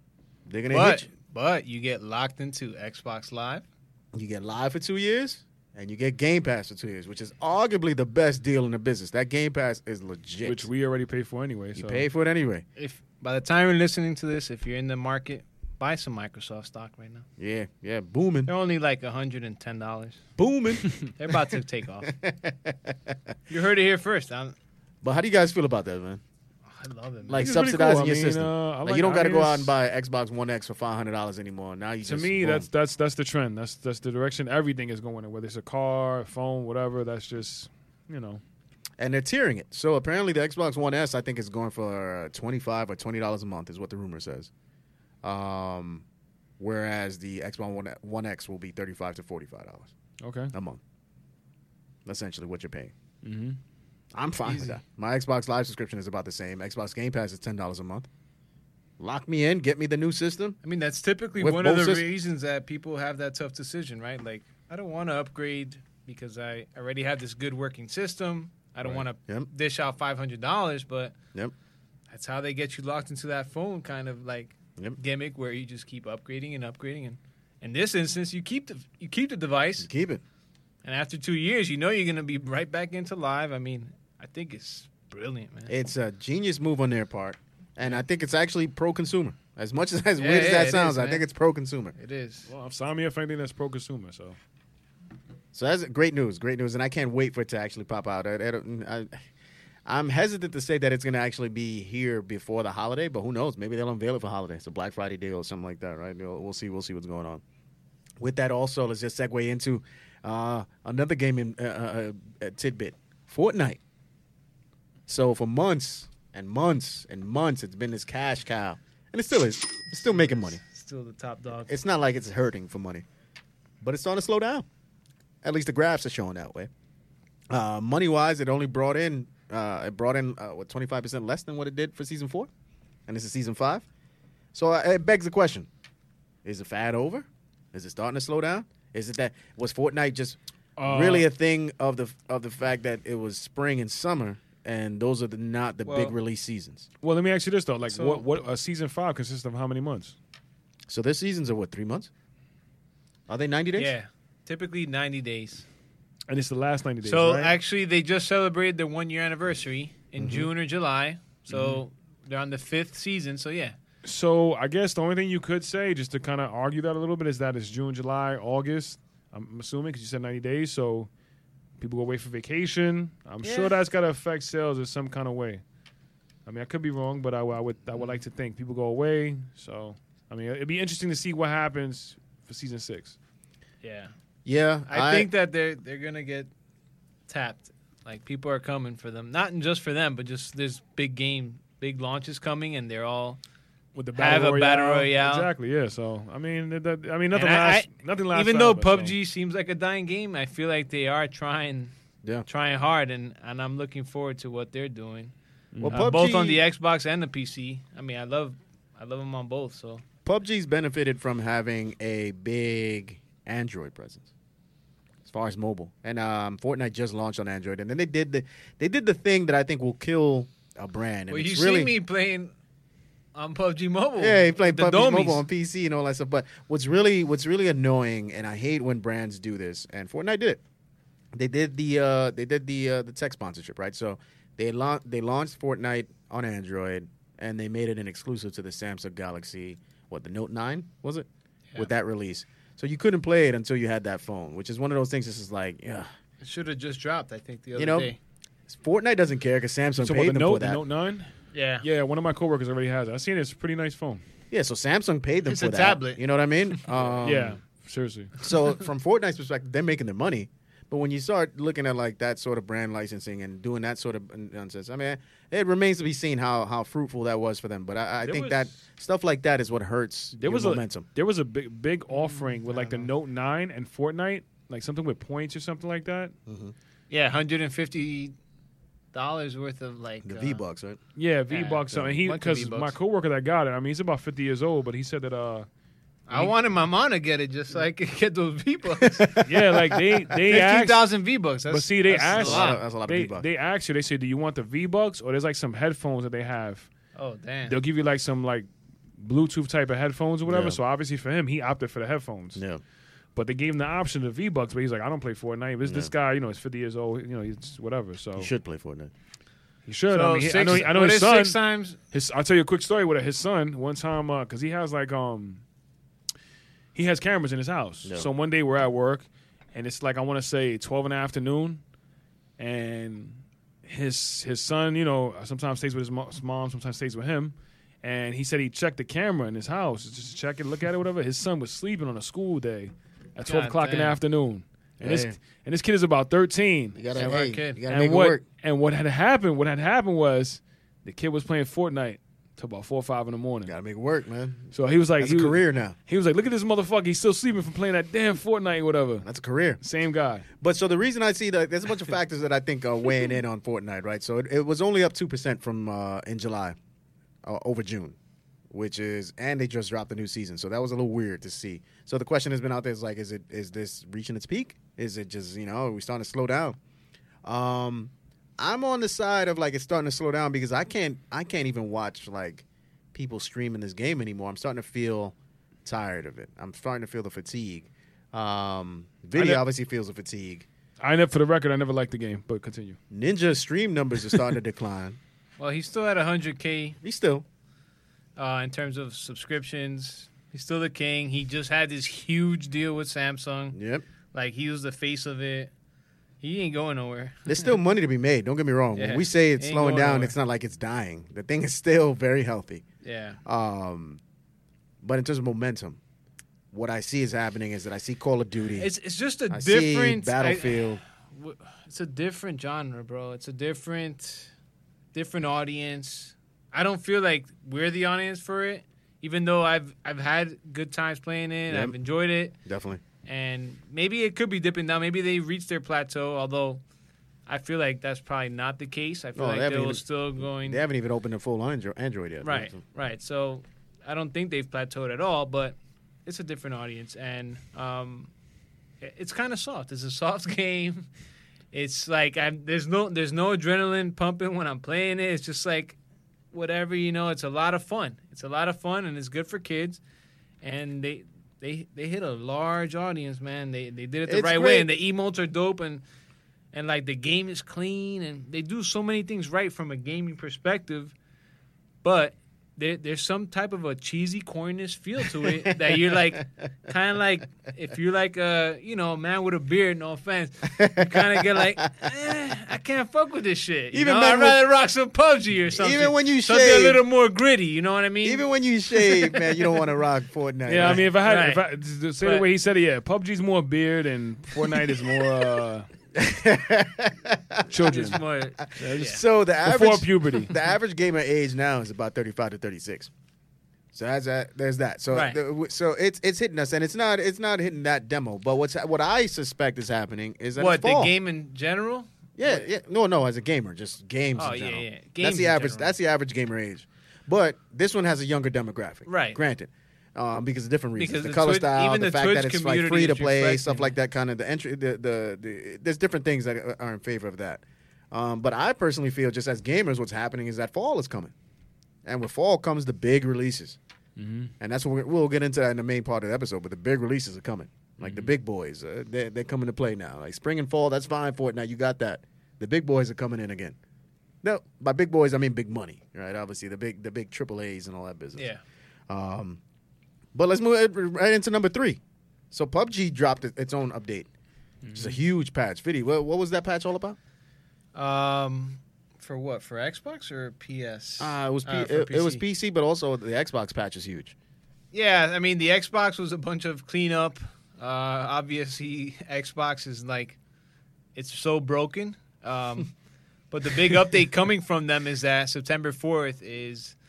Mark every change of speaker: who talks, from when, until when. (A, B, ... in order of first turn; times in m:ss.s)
0:00.5-0:01.1 A
0:00.7-0:03.6 B
0:04.1-0:10.7 A
0:10.4-0:12.0 C
0:11.8-0:12.6 A
0:12.8-0:17.2 B
0:17.4-0:18.5 A
0:18.5-0:20.2 B
0:20.4-0:20.9 A
0:21.0-0:22.1 B
0:22.0-0:23.2 A
0:23.5-0:24.6 B
0:25.0-0:26.2 A
0:26.7-0:27.5 B
0:27.3-0:32.7 A
0:27.4-0:29.7 C
0:32.0-0:38.4 C
0:39.0-0:44.5 A
0:45.2-0:46.0 A
0:46.6-0:49.9 A
0:50.2-0:50.5 C
0:50.5-0:50.8 A
0:52.1-0:52.9 A
0:53.2-0:53.6 C
0:54.1-0:58.1 A
0:54.4-0:54.8 B
0:59.0-1:00.6 A
1:00.6-1:11.2 B
1:01.4-1:02.0 A
1:08.8-1:09.5 A
1:12.1-1:19.9 B
1:19.8-1:20.2 A
1:20.8-1:25.7 B
1:25.7-1:31.9 A
1:30.2-1:31.3 B
1:32.0-1:32.5 B
1:32.5-1:34.4 C
1:35.5-1:39.2 A
1:39.9-1:47.4 A
1:48.2-1:53.8 A
1:55.1-2:00.6 A
2:00.1-2:01.7 B
2:01.7-2:03.0 A
2:03.8-2:04.6 A
2:05.4-2:06.7 A
2:07.5-2:12.5 A
2:13.1-2:13.8 A
2:14.5-2:15.7 A
2:16.4-2:26.9 A
2:20.8-2:21.3 C
2:25.8-2:26.2 B
2:27.0-2:30.2 C
2:27.9-2:28.2 B
2:30.9-2:32.1 A
2:33.3-2:33.9 A
2:33.8-2:35.7 B
2:36.3-2:37.6 C
2:37.0-2:43.8 B
2:40.2-2:40.5 A
2:41.5-2:41.8 C
2:44.0-2:51.1 C
2:51.8-2:55.6 C
2:53.4-2:53.8 B
2:56.5-3:03.2 C
3:03.8-3:04.1 B
3:04.5-3:05.3 A
3:04.9-3:06.5 B
3:07.3-3:13.4 B
3:14.0-3:19.2 C
3:14.2-3:15.5 B
3:17.3-3:21.9 B
3:22.5-3:25.3 B
3:25.7-3:26.1 C
3:25.8-3:26.6 A
3:25.9-3:30.0 B
3:30.2-3:34.3 A
3:35.3-3:41.9 A
3:41.3-3:42.5 B
3:43.4-3:45.4 B
3:44.2-3:50.6 A
3:51.3-4:06.1 A
4:06.4-4:08.2 B
4:07.8-4:08.1 A
4:08.7-4:10.8 A
4:10.0-4:11.3 C
4:11.5-4:11.9 B
4:11.8-4:14.2 C
4:14.5-4:17.6 A
4:15.5-4:17.3 B
4:17.2-4:18.3 C
4:18.4-4:31.1 A
4:28.2-4:28.7 C
4:30.4-4:36.3 C
4:32.1-4:33.1 B
4:36.5-4:36.7 A
4:37.1-4:38.4 B
4:39.1-4:40.6 B
4:40.2-4:41.0 A
4:41.2-4:45.7 C
4:41.5-4:43.0 B
4:46.3-4:49.4 B
4:46.3-4:46.5 C
4:49.0-4:49.8 A
4:49.4-4:51.0 C
4:50.4-4:52.8 B
4:51.7-4:56.9 C
4:52.3-4:53.4 A
4:57.2-4:57.8 B
4:57.7-5:02.6 C
5:00.5-5:00.8 A
5:02.6-5:02.8 A
5:03.4-5:08.5 C
5:05.8-5:06.1 A
5:08.4-5:09.1 A
5:09.9-5:11.6 C
5:10.1-5:12.0 B
5:12.1-5:15.6 C
5:17.0-5:21.8 C
5:22.6-5:37.0 C
5:33.5-5:34.2 B
5:35.0-5:35.4 A
5:37.0-5:38.4 A
5:37.1-5:37.8 B
5:37.9-5:43.7 C
5:43.6-5:46.0 A
5:44.7-5:49.3 C
5:49.2-5:49.8 A
5:49.8-5:50.4 C
5:50.6-5:56.8 A
5:57.4-5:58.2 A
5:58.7-6:06.8 A
6:07.4-6:20.7 A
6:19.4-6:19.6 C
6:21.0-6:23.0 C
6:23.1-6:25.2 A
6:25.6-6:27.0 B
6:27.0-6:27.4 A
6:28.4-6:33.8 B
6:33.7-6:34.0 A
6:34.3-6:35.7 B
6:36.4-6:37.8 B
6:37.5-6:42.8 A
6:39.0-6:40.4 B
6:43.0-6:43.4 B
6:43.4-6:44.2 A
6:45.0-6:46.0 A
6:46.7-6:48.9 A
6:48.8-6:54.5 B
6:49.5-6:51.0 A
6:55.1-7:02.6 B
7:01.7-7:02.0 A
7:02.6-7:03.0 A
7:03.2-7:06.8 B
7:07.5-7:10.8 B
7:09.4-7:12.8 A
7:12.4-7:18.3 B
7:19.0-7:21.1 B
7:21.7-7:26.0 B
7:26.5-7:30.0 B
7:30.6-7:36.0 B
7:34.3-7:34.9 A
7:36.7-7:41.1 B
7:42.0-7:59.8 B
7:45.4-7:45.7 A
7:50.7-7:52.0 A
7:53.9-7:54.6 A
7:55.7-7:57.0 A
7:58.2-8:01.0 A
8:00.7-8:05.9 C
8:00.8-8:01.6 B
8:02.2-8:02.5 B
8:06.2-8:07.7 A
8:07.7-8:08.2 C
8:07.8-8:09.2 B
8:08.6-8:13.1 A
8:08.8-8:10.5 C
8:13.9-8:21.1 A
8:15.1-8:15.4 B
8:20.6-8:22.7 B
8:22.4-8:41.3 A
8:24.4-8:25.9 B
8:29.1-8:29.4 B
8:31.0-8:34.0 B
8:42.0-8:43.8 A
8:44.2-8:44.5 C
8:44.6-8:53.8 A
8:48.0-8:48.3 C
8:54.4-8:58.5 A
8:59.1-8:59.6 A
9:00.3-9:02.0 A
9:02.5-9:04.3 A
9:04.8-9:05.2 C
9:04.9-9:07.2 A
9:08.0-9:12.4 B
9:11.2-9:14.3 A
9:14.9-9:20.4 B
9:21.2-9:22.9 B
9:23.5-9:27.0 B